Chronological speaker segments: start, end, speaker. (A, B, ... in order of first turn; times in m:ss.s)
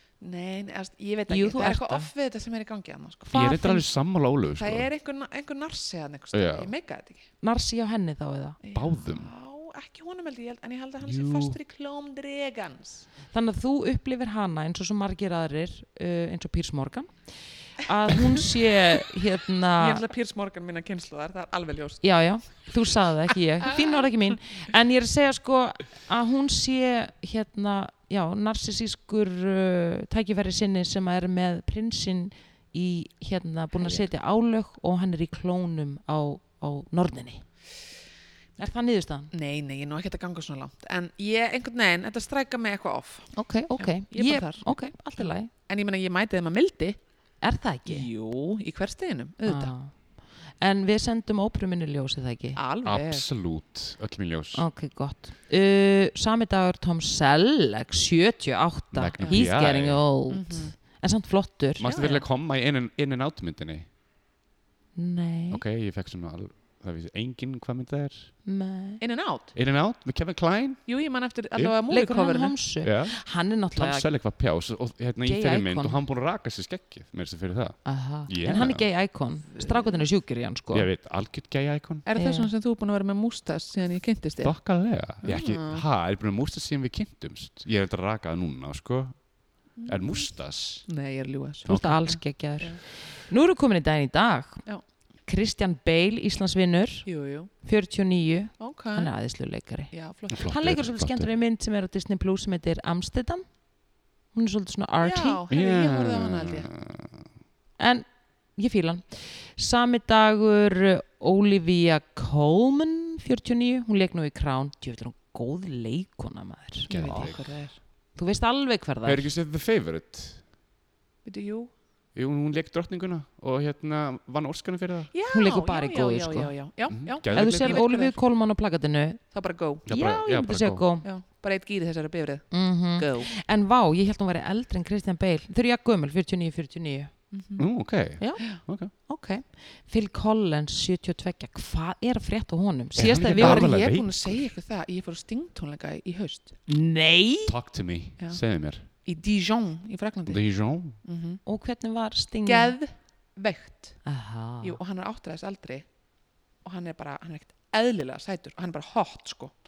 0:00.2-0:03.4 A
0:01.3-0:02.1 B
0:03.3-0:03.9 B
0:03.3-0:04.9 C
0:04.6-0:07.2 A
0:06.3-0:06.7 C
0:07.4-0:08.6 B
0:08.6-0:13.1 A
0:08.7-0:09.3 C
0:11.0-0:11.6 C
0:13.3-0:17.1 B
0:17.7-0:20.0 B
0:19.8-0:22.0 A
0:22.0-0:37.4 B
0:23.6-0:24.0 A
0:33.7-0:34.1 A
0:38.6-0:39.3 B
0:39.3-0:47.0 A
0:43.3-0:45.5 B
0:47.4-0:48.1 B
0:47.8-0:49.7 A
0:49.4-0:52.6 B
0:52.6-0:53.3 A
0:52.8-0:54.6 C
0:54.5-1:02.2 B
0:58.9-1:00.0 C
0:59.2-0:59.5 A
1:00.3-1:00.7 A
1:01.8-1:03.9 C
1:01.9-1:02.2 A
1:05.0-1:05.6 B
1:05.5-1:08.3 C
1:08.4-1:09.0 B
1:09.0-1:09.5 A
1:09.5-1:11.0 C
1:10.8-1:12.6 A
1:11.9-1:14.1 B
1:12.8-1:18.9 C
1:15.2-1:16.0 B
1:17.8-1:20.9 B
1:19.5-1:20.0 A
1:20.7-1:22.0 C
1:22.0-1:24.6 A
1:22.2-1:22.5 B
1:24.4-1:29.3 C
1:25.2-1:25.8 A
1:29.8-1:30.3 A
1:29.8-1:30.9 C
1:30.8-1:31.8 A
1:31.6-1:32.2 C
1:31.6-1:34.6 B
1:35.2-1:37.1 B
1:37.0-1:37.5 A
1:37.6-1:43.5 B
1:38.6-1:39.1 A
1:39.9-1:40.5 A
1:40.3-1:41.3 C
1:44.3-1:45.4 B
1:45.0-1:46.7 A
1:45.5-1:47.2 C
1:47.8-1:57.3 B
1:56.9-1:57.8 A
1:56.9-1:57.6 C
1:58.2-1:59.3 B
1:59.0-2:00.4 C
2:01.2-2:01.7 A
2:02.1-2:05.1 C
2:05.1-2:08.2 A
2:05.3-2:09.2 B
2:06.9-2:07.8 C
2:09.3-2:09.8 A
2:09.8-2:10.8 C
2:09.8-2:11.0 B
2:11.0-2:13.3 A
2:12.5-2:17.2 B
2:17.3-2:17.6 A
2:17.6-2:18.9 C
2:18.2-2:23.8 B
2:23.0-2:24.5 C
2:23.0-2:26.6 A
2:26.7-2:27.5 B
2:27.5-2:28.9 C
2:28.2-2:31.4 A
2:30.3-2:31.0 C
2:31.4-2:32.8 B
2:32.4-2:34.0 A
2:34.0-2:34.8 B
2:34.6-2:35.9 A
2:36.6-2:39.5 A